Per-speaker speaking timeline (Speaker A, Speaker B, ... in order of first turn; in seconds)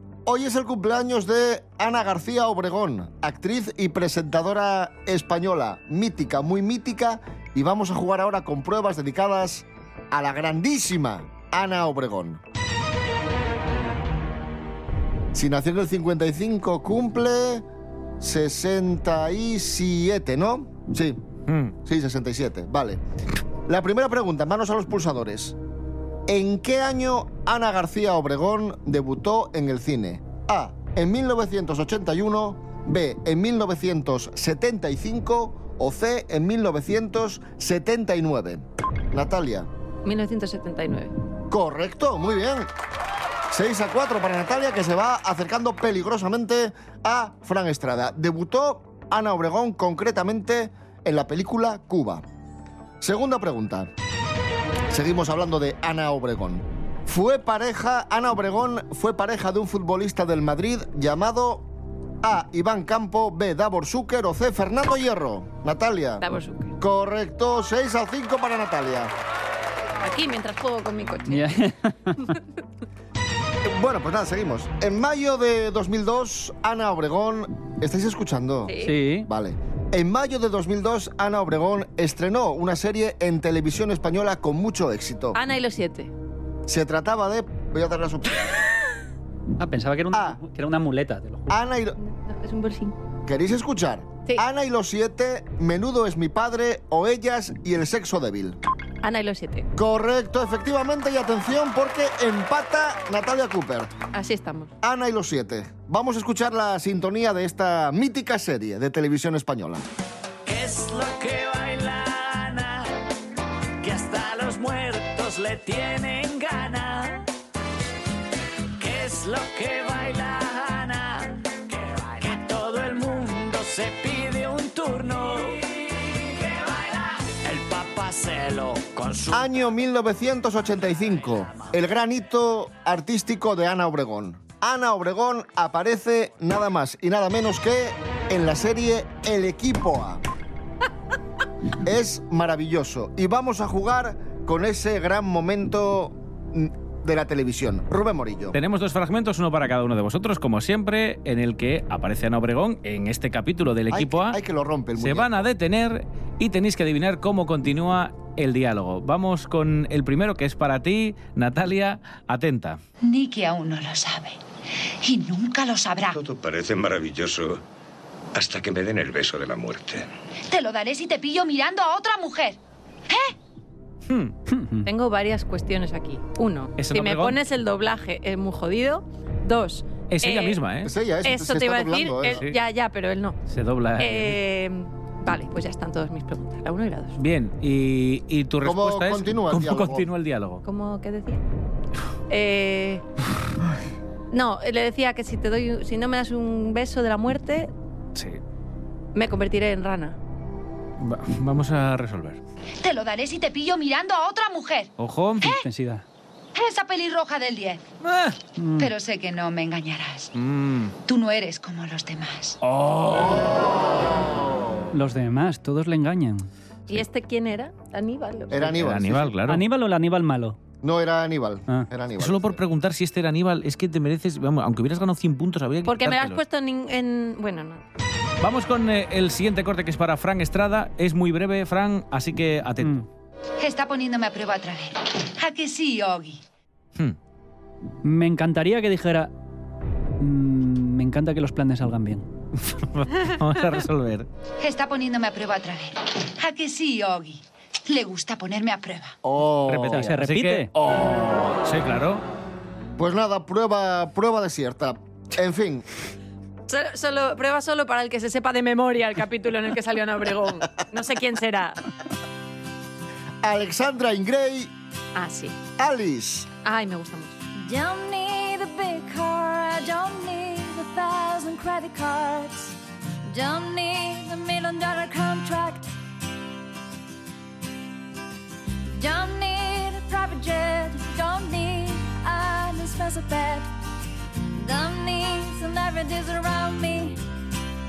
Speaker A: 0.3-12.4, 15.3-17.6, 18.2-21.2, 21.9-23.0, 23.7-25.6, 26.3-39.7, 41.5-42.7, 43.5-52.2, 53.0-53.9, 54.9-61.7, 62.2-66.2, 66.8-69.1, 73.6-85.4, 86.7-88.5, 90.1-90.4, 91.5-92.0, 93.3-98.6, 99.8-103.9, 104.8-109.8, 129.3-140.2, 141.8-148.6, 153.9-155.4, 180.8-182.4, 188.6-190.1, 218.5-219.4, 220.8-222.6, 249.2-250.1, 253.0-255.9, 263.4-264.7, 265.8-266.5
Speaker B: 21.5-21.7, 148.5-154.4, 155.0-162.8, 174.1-174.3, 176.8-177.4, 180.1-180.9, 183.5-184.4, 187.2-190.6, 198.2-198.4, 201.0-202.4, 205.0-205.5, 208.0-208.4, 210.3-210.9, 212.6-213.6, 218.6-219.7, 222.2-226.4, 228.4-233.0, 242.7-244.3, 249.7-252.2
Speaker C: 40.0-41.1, 66.2-66.7, 70.0-71.5, 78.7-79.0, 85.3-86.1, 92.0-93.0, 99.0-99.7, 104.1-104.7, 174.9-180.6, 181.2-183.4, 184.0-187.2, 190.6-191.4, 192.3-193.0, 194.3-197.7, 199.2-200.2, 216.9-218.7, 225.9-227.8, 256.7-261.8, 265.1-265.6, 266.6-267.4
Speaker D: 71.3-72.3, 78.8-79.3, 89.6-91.5, 174.5-174.9, 205.4-206.0, 208.6-208.9, 214.9-216.5, 219.5-220.6, 232.8-233.1, 238.0-239.3, 240.2-242.3, 249.9-250.7
Speaker E: 110.5-113.0, 113.8-117.3, 118.8-129.8
Speaker F: 163.0-164.4, 165.0-166.2, 170.5-172.6, 173.1-173.3, 202.8-204.9, 206.6-207.8, 208.8-210.3, 211.1-212.6, 233.6-236.4, 244.6-249.2
Speaker G: 166.1-167.6, 168.3-170.1
Speaker H: 267.6-272.8, 273.3-275.9, 278.9-283.7, 284.6-287.2